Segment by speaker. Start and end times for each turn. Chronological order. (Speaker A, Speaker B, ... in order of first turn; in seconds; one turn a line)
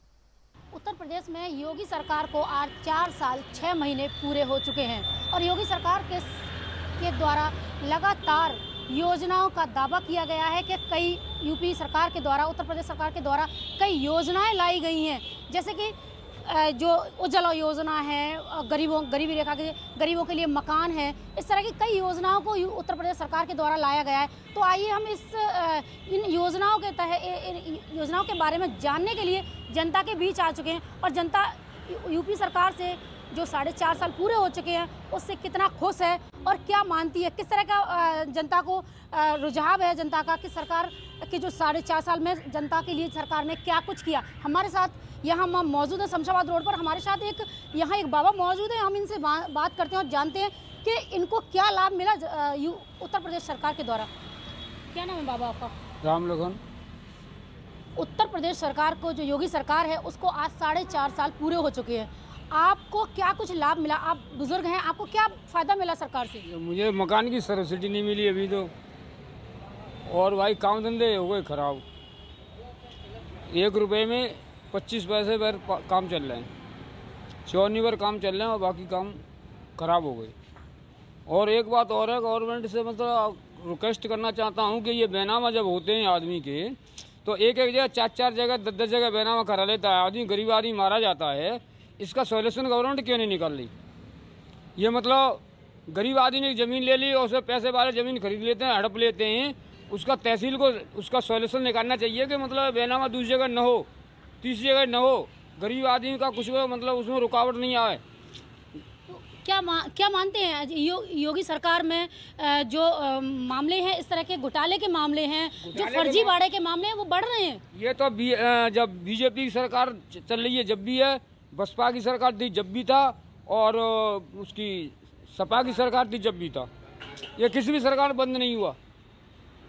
Speaker A: 0.7-6.5
Speaker A: 7.0-54.1
Speaker A: 54.9-55.8
Speaker B: 56.0-56.6
Speaker A: 58.0-66.4
Speaker B: 66.5-68.7
Speaker B: 70.1-71.8
Speaker B: 73.5-76.5
Speaker B: 77.5-79.2
Speaker B: 79.8-80.3
Speaker B: 81.3-93.7
Speaker B: 94.8-103.9
Speaker B: 104.4-108.0
Speaker A: 109.1-117.6
Speaker B: 115.7-116.3
Speaker B: 117.7-126.7
Speaker B: 127.4-128.8